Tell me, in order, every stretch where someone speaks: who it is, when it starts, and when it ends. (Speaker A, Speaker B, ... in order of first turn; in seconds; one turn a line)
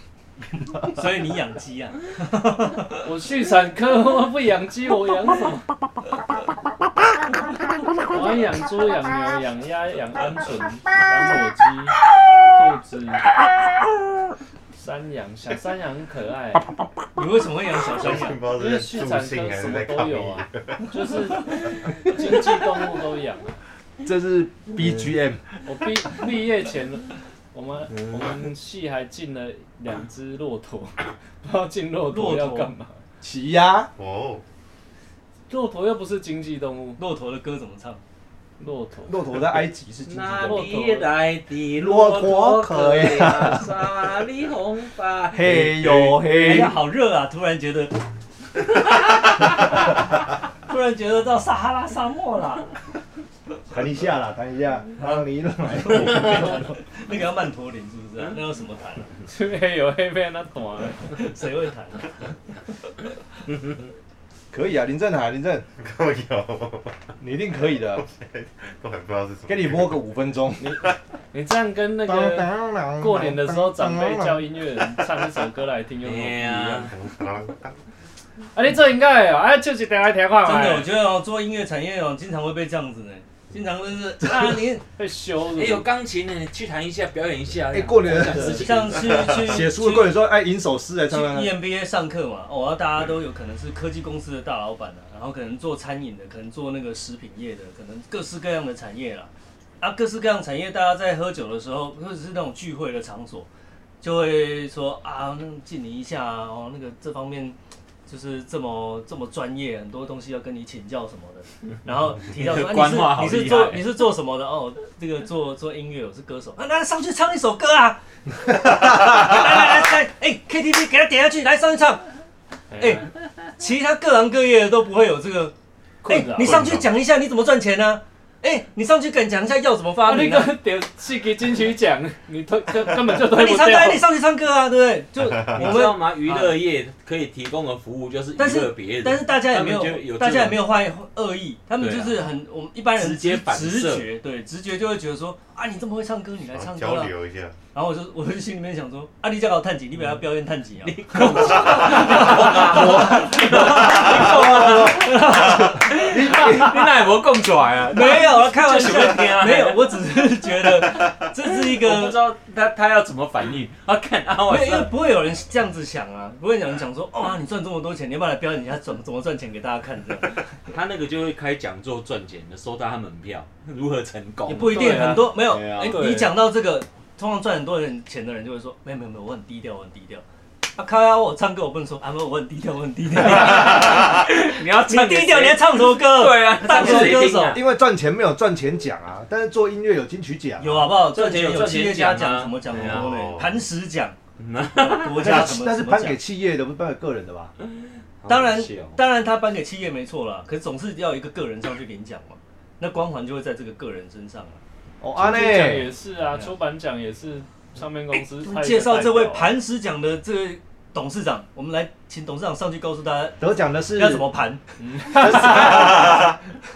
Speaker A: 0.7-3.0
Speaker B: 3.0-5.7
Speaker B: 8.1-12.0
Speaker B: 12.5-13.3
Speaker B: 14.8-16.7
Speaker A: 17.2-18.4
Speaker C: 17.9-21.0
Speaker B: 18.5-23.6
Speaker D: 24.0-25.4
Speaker B: 25.6-33.0
Speaker E: 27.9-28.2
Speaker A: 32.1-32.7
Speaker D: 33.2-33.9
Speaker C: 34.0-34.4
Speaker B: 35.5-37.0
Speaker A: 37.0-38.0
Speaker B: 38.6-39.2
Speaker D: 39.1-40.9
Speaker E: 40.1-46.2
Speaker B: 40.4-41.1
Speaker D: 41.8-43.7
Speaker D: 45.3-46.8
Speaker A: 46.3-48.0
Speaker B: 46.4-46.7
Speaker E: 49.0-49.3
Speaker A: 50.7-52.7
Speaker D: 53.7-56.8
Speaker A: 55.0-59.1
Speaker B: 59.3-61.2
Speaker A: 61.1-62.2
Speaker D: 64.5-65.7
Speaker C: 65.8-67.1
Speaker D: 67.2-68.0
Speaker C: 67.8-70.0
Speaker D: 69.5-70.9
Speaker B: 70.6-76.9
Speaker D: 72.1-74.5
Speaker E: 76.0-76.9
Speaker C: 76.9-77.8
Speaker B: 78.5-80.9
Speaker A: 80.4-84.8
Speaker B: 84.3-85.9
Speaker E: 85.5-89.6
Speaker D: 87.7-91.5
Speaker A: 88.3-90.2
Speaker A: 91.1-103.5
Speaker A: 104.0-122.0
Speaker E: 112.3-113.9
Speaker D: 118.9-119.3
Speaker B: 122.7-123.1
Speaker A: 122.8-123.1
Speaker A: 123.6-125.5
Speaker B: 126.0-126.7
Speaker A: 126.1-130.6
Speaker C: 126.4-126.9
Speaker B: 130.1-134.1
Speaker A: 133.3-136.6
Speaker C: 135.2-135.8
Speaker E: 135.6-140.6
Speaker A: 138.4-147.1
Speaker E: 141.8-142.3
Speaker E: 143.0-144.1
Speaker C: 146.5-147.6
Speaker A: 147.7-156.0
Speaker E: 150.8-159.9
Speaker D: 152.0-157.1
Speaker A: 157.9-162.2
Speaker E: 160.8-164.9
Speaker A: 164.5-170.5
Speaker E: 170.7-176.0
Speaker A: 174.5-180.2
Speaker B: 174.6-176.3
Speaker A: 180.8-187.6
Speaker E: 183.2-184.6
Speaker B: 184.4-185.6
Speaker E: 185.4-187.6
Speaker D: 186.7-191.0
Speaker A: 190.6-194.2
Speaker E: 191.0-193.1
Speaker C: 192.7-193.7
Speaker E: 194.4-195.4
Speaker A: 194.8-196.2
Speaker D: 195.2-197.5
Speaker E: 198.2-199.0
Speaker A: 198.3-204.6
Speaker D: 205.0-205.9
Speaker B: 205.2-209.6
Speaker A: 208.2-213.4
Speaker D: 213.4-214.3
Speaker A: 214.0-214.6
Speaker B: 214.8-216.3
Speaker D: 215.1-216.4